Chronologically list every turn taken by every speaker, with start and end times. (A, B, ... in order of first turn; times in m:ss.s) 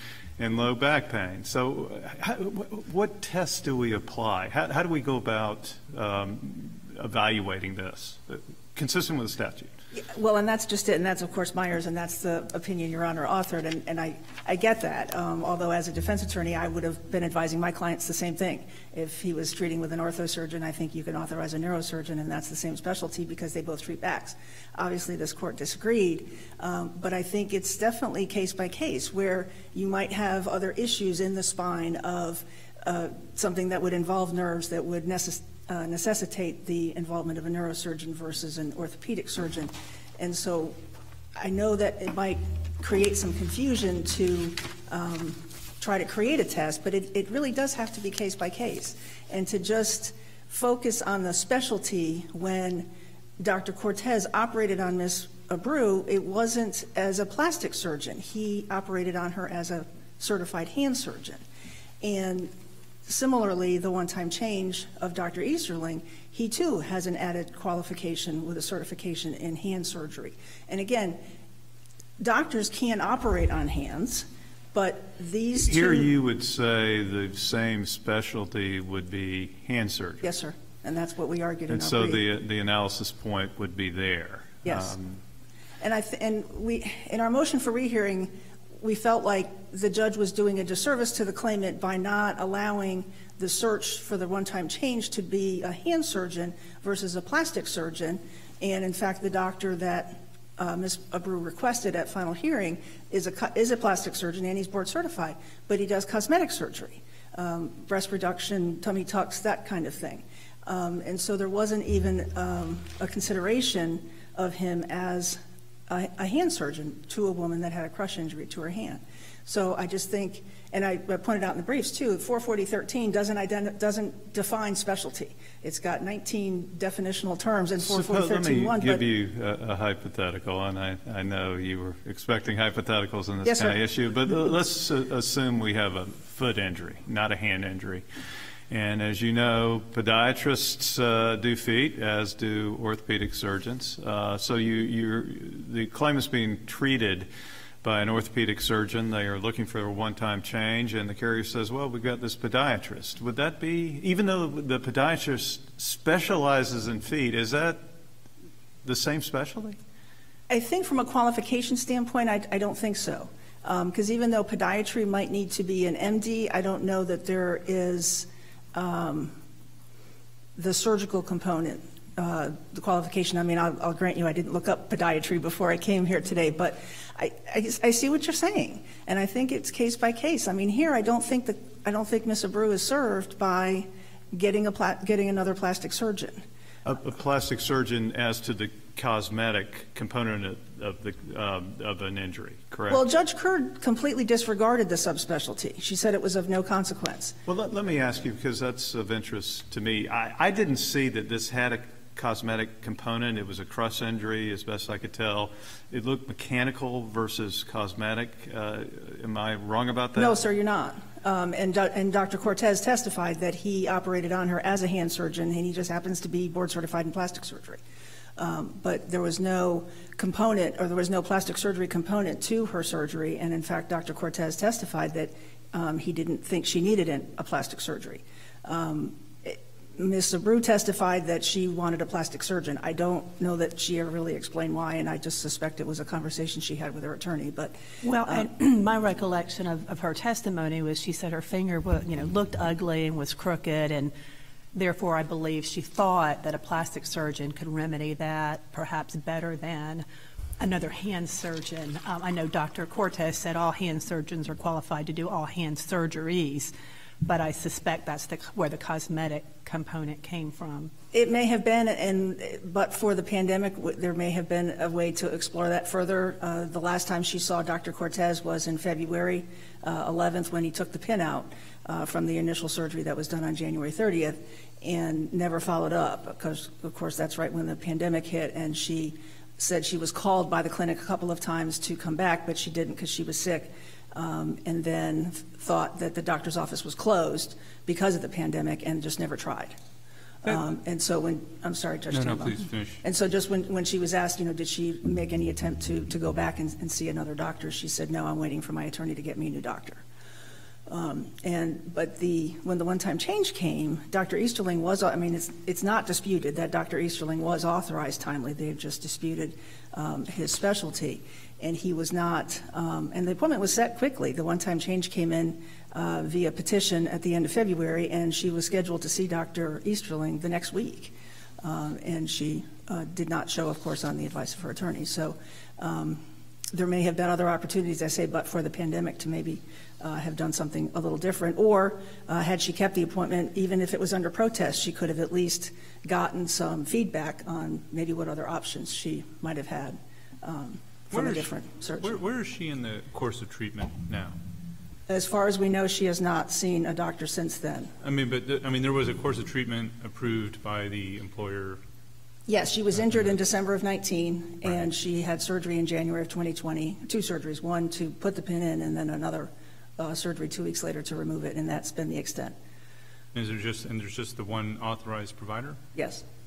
0:00.4-0:09.7 A
0:09.9-0:40.8 B
0:41.4-1:01.4 B
1:02.0-1:02.5 B
1:03.1-1:11.2 B
1:12.2-1:16.1 B
1:15.7-1:20.3 A
1:20.2-1:22.2 B
1:21.7-1:25.2 A
1:24.6-1:25.0 B
1:25.8-2:09.0 B
2:07.8-2:18.0 A
2:13.4-2:13.8 B
2:18.7-2:27.3 A
2:27.8-2:37.9 A
2:38.8-2:39.8 A
2:40.5-2:49.4 B
2:50.6-3:06.4 B
3:06.8-3:13.0 A
3:12.9-3:17.4 B
3:17.5-3:30.4 A
3:30.2-3:37.8 B
3:38.4-3:58.5 B
3:58.0-4:04.1 C
4:04.7-4:10.1 C
4:10.6-4:20.9 C
4:21.1-4:49.8 B
4:50.4-5:00.0 B
4:52.1-4:53.0 D
5:00.9-5:42.2 B
5:41.1-5:44.4 D
5:45.1-5:47.9 B
5:48.0-5:51.8 D
5:52.5-6:02.6 B
6:03.3-6:05.8 D
6:06.0-6:06.2 B